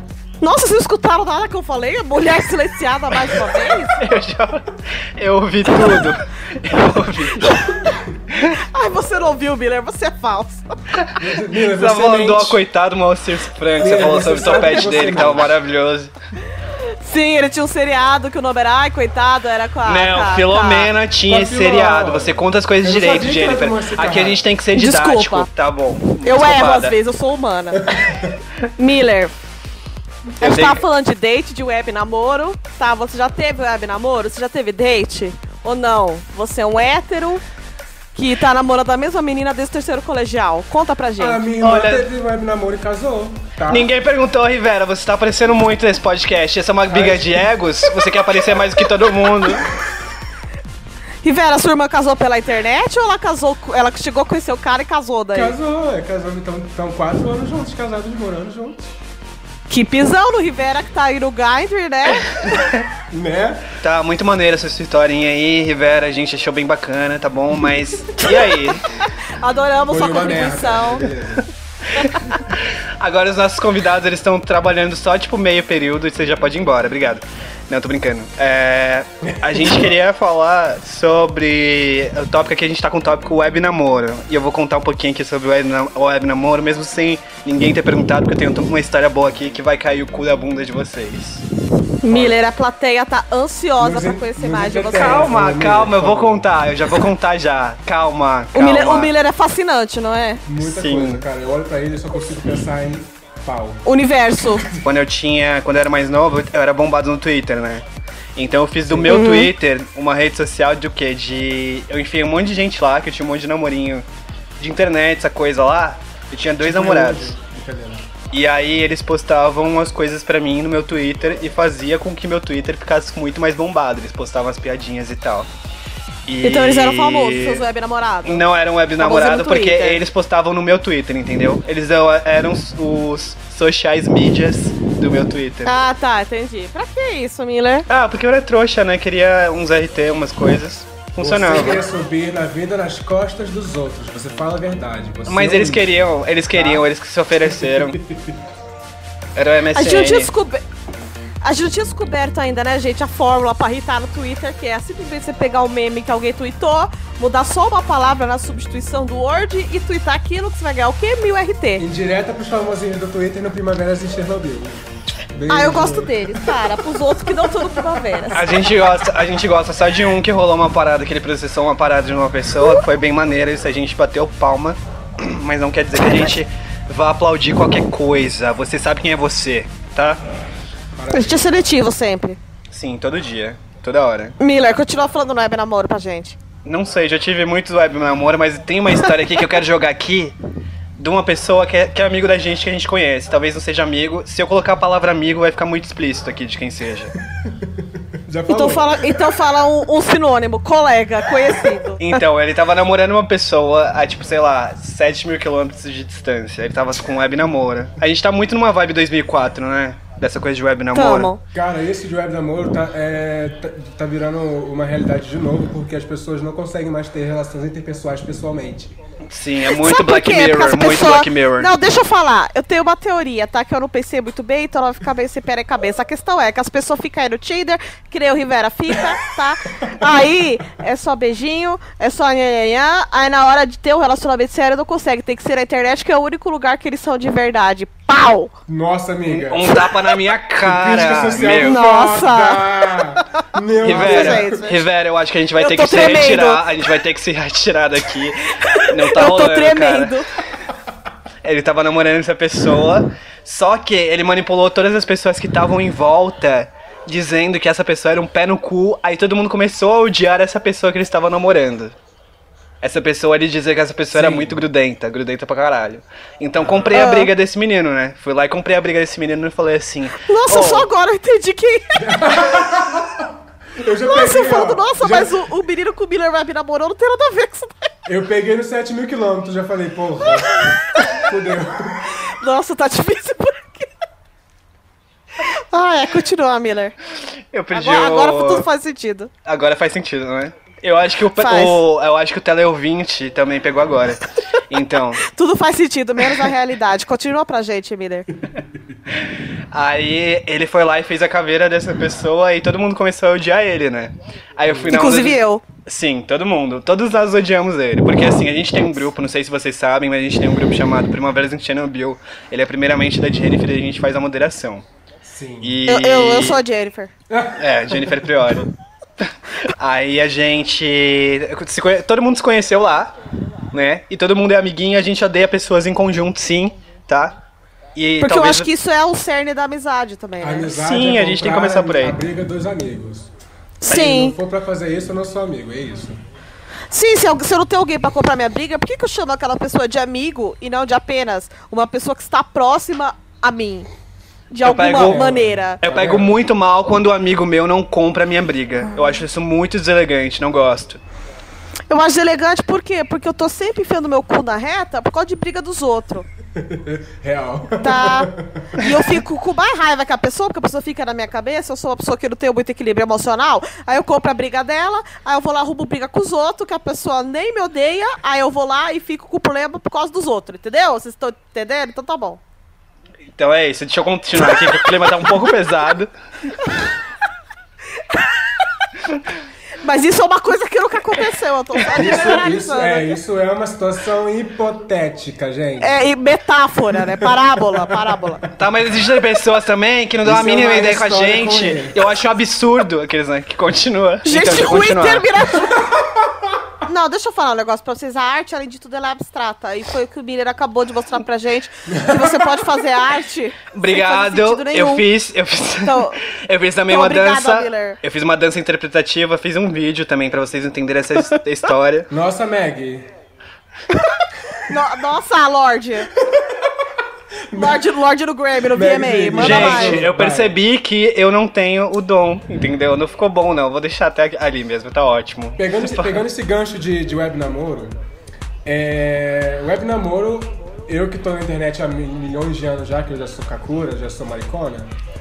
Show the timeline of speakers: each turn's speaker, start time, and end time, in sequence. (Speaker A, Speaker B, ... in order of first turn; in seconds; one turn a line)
Speaker A: 0.4-4.0
Speaker B: 4.0-7.7
Speaker B: 8.3-8.6
Speaker A: 8.5-10.7
Speaker B: 11.0-16.1
Speaker C: 11.2-12.6
Speaker C: 13.8-15.5
Speaker A: 17.0-20.9
Speaker B: 19.9-27.0
Speaker C: 21.3-24.4
Speaker A: 24.7-25.5
Speaker A: 26.2-27.9
Speaker C: 27.8-28.4
Speaker A: 28.8-29.3
Speaker A: 30.4-37.4
Speaker B: 30.4-30.8
Speaker A: 38.1-41.4
Speaker C: 41.2-43.9
Speaker B: 41.6-42.1
Speaker B: 43.7-49.7
Speaker C: 46.9-47.5
Speaker A: 51.2-55.5
Speaker C: 55.3-59.0
Speaker A: 59.7-62.5
Speaker B: 62.5-62.8
Speaker C: 63.1-63.7
Speaker B: 63.8-68.8
Speaker A: 69.3-71.1
Speaker C: 69.9-71.5
Speaker B: 72.0-91.4
Speaker C: 79.3-79.9
Speaker A: 92.0-95.3
Speaker C: 93.8-96.5
Speaker B: 94.9-99.1
Speaker A: 98.5-100.4
Speaker C: 100.5-103.8
Speaker B: 100.6-101.2
Speaker A: 103.8-104.7
Speaker C: 104.5-104.8
Speaker B: 104.8-107.8
Speaker B: 108.3-114.0
Speaker C: 108.9-109.2
Speaker A: 109.1-109.5
Speaker B: 114.6-117.3
Speaker C: 116.6-118.1
Speaker B: 118.3-125.5
Speaker B: 126.2-127.6
Speaker A: 126.4-128.4
Speaker B: 128.2-135.8
Speaker A: 129.0-130.0
Speaker A: 135.6-137.8
Speaker B: 137.9-141.8
Speaker C: 141.2-145.9
Speaker B: 145.3-148.0
Speaker C: 146.5-146.8
Speaker C: 147.4-148.4
Speaker B: 149.3-150.3
Speaker A: 149.7-150.6
Speaker A: 151.4-161.8
Speaker C: 161.8-164.8
Speaker C: 165.3-166.6
Speaker A: 165.5-168.6
Speaker B: 168.3-180.2
Speaker C: 180.9-181.6
Speaker A: 181.1-182.4
Speaker B: 182.7-184.4
Speaker A: 184.4-186.4
Speaker B: 186.6-190.3
Speaker B: 191.0-197.1
Speaker C: 197.4-199.2
Speaker A: 198.5-202.2
Speaker B: 202.0-211.3
Speaker A: 210.9-211.4
Speaker C: 211.5-218.9
Speaker B: 219.3-221.7
Speaker A: 219.7-238.5
Speaker C: 238.7-239.8
Speaker B: 239.3-241.8
Speaker C: 240.6-244.7
Speaker A: 241.5-243.0
Speaker A: 243.8-244.8
Speaker B: 243.8-250.2
Speaker A: 245.6-246.6
Speaker A: 248.6-250.3
Speaker B: 251.4-261.9
Speaker B: 262.8-270.9
Speaker C: 264.1-264.6
Speaker C: 266.6-266.9
Speaker A: 266.9-267.3
Speaker A: 270.2-272.0
Speaker C: 272.0-275.3
Speaker A: 274.1-277.9
Speaker C: 278.1-280.5
Speaker C: 281.1-282.1
Speaker A: 282.3-283.9
Speaker A: 285.4-286.9
Speaker B: 287.5-288.7
Speaker A: 287.7-289.3
Speaker B: 289.4-295.2
Speaker A: 291.4-291.8
Speaker A: 295.2-298.3
Speaker B: 299.1-314.8
Speaker C: 304.7-304.9
Speaker A: 304.9-305.6
Speaker C: 315.2-315.8
Speaker B: 315.6-316.6
Speaker A: 315.9-317.1
Speaker C: 317.3-318.5
Speaker B: 317.6-318.7
Speaker B: 319.2-323.1
Speaker B: 323.7-327.3
Speaker B: 327.9-328.7
Speaker A: 328.2-330.7
Speaker C: 330.4-333.3
Speaker B: 330.7-332.2
Speaker A: 333.8-334.4
Speaker C: 333.9-336.2
Speaker A: 336.9-343.9
Speaker A: 344.5-345.8
Speaker B: 344.6-345.3
Speaker C: 344.9-346.4
Speaker B: 345.8-351.0
Speaker A: 351.9-356.2
Speaker C: 356.6-358.9
Speaker A: 357.8-372.4
Speaker B: 373.3-376.1
Speaker A: 378.1-378.6
Speaker A: 379.8-383.1
Speaker C: 381.9-386.0
Speaker A: 385.8-388.4
Speaker C: 386.9-388.5
Speaker B: 388.6-395.3
Speaker C: 390.2-392.0
Speaker A: 394.2-395.8
Speaker C: 395.8-396.6
Speaker A: 396.8-405.0
Speaker C: 401.9-402.8
Speaker B: 403.7-412.1
Speaker A: 405.8-406.2
Speaker A: 406.9-408.0
Speaker C: 412.1-413.1
Speaker A: 414.7-416.1
Speaker C: 416.2-416.9
Speaker C: 417.5-417.9
Speaker A: 417.5-420.0
Speaker C: 418.7-420.5
Speaker B: 419.4-426.2
Speaker C: 425.6-428.0
Speaker C: 428.6-434.9